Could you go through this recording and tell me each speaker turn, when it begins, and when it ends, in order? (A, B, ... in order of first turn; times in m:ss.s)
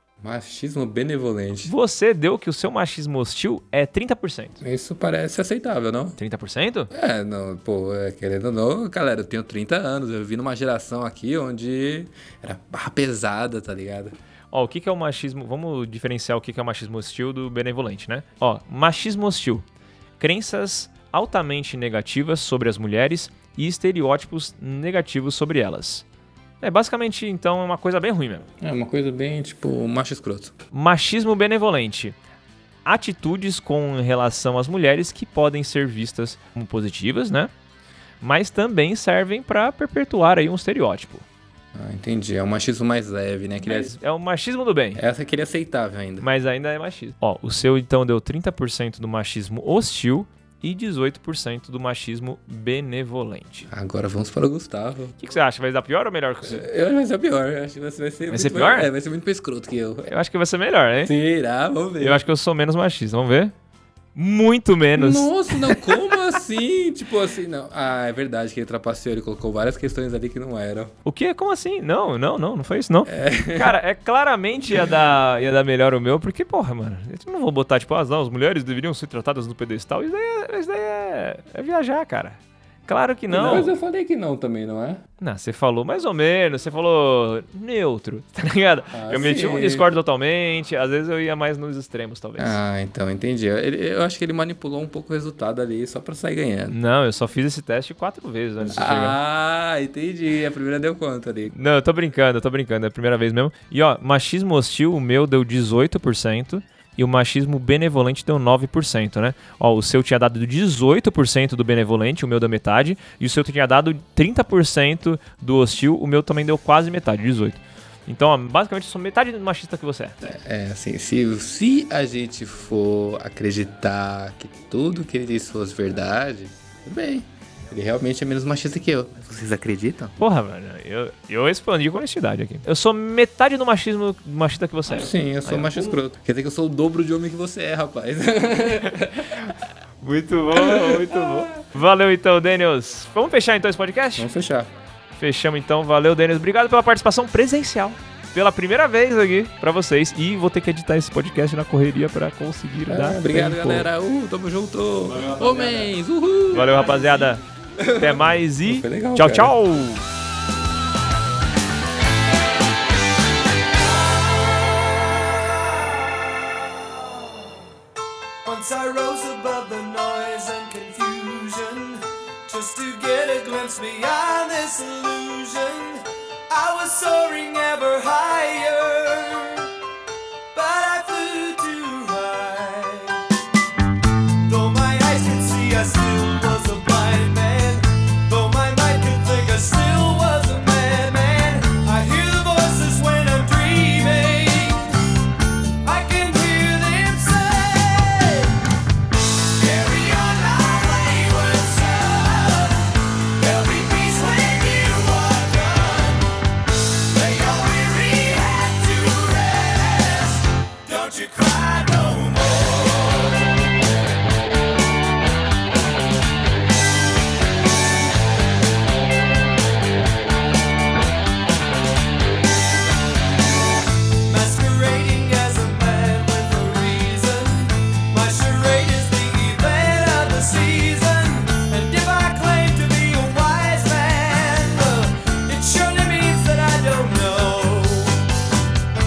0:00.2-0:01.7 A
0:01.6-0:04.6 B
0:04.6-0:06.2 A
0:06.2-0:06.9 B
0:06.9-0:14.2 A
0:14.5-0:19.7 B
0:20.2-0:26.0 B
0:26.6-0:28.5 B
0:28.6-0:30.5 A
0:30.7-0:32.2 B
0:32.8-0:37.5 B
0:38.2-0:41.3 B
0:41.8-0:44.0 A
0:43.6-0:45.0 B
0:45.0-0:46.3 A
0:46.2-0:53.7 B
0:53.7-0:55.2 A
0:55.2-0:56.7 B
0:56.4-1:00.1 A
0:58.3-0:58.9 B
1:00.1-1:01.1 B
1:01.0-1:02.2 A
1:02.0-1:03.5 B
1:04.2-1:06.3 B
1:04.9-1:10.9 A
1:11.0-1:23.8 B
1:13.1-1:13.8 A
1:23.3-1:25.0 A
1:25.2-1:32.6 B
1:28.9-1:29.8 A
1:32.4-1:36.8 A
1:36.7-1:39.2 B
1:38.7-1:41.5 A
1:41.5-2:00.2 B
2:00.2-2:10.2 A
2:10.2-2:16.0 B
2:14.9-2:19.6 A
2:19.1-2:24.3 B
2:20.5-2:21.6 A
2:24.2-2:24.7 A
2:25.2-2:33.9 B
2:32.9-2:37.1 A
2:35.0-2:35.9 B
2:36.5-2:37.4 B
2:37.8-2:39.6 A
2:38.0-2:40.1 B
2:44.4-2:44.8 C
2:45.4-2:47.2 C
2:48.4-2:59.7 C
3:00.5-3:03.2 C
3:04.5-3:15.1 C
3:15.8-3:18.6 C
3:19.5-3:33.4 C
3:44.2-3:58.3 C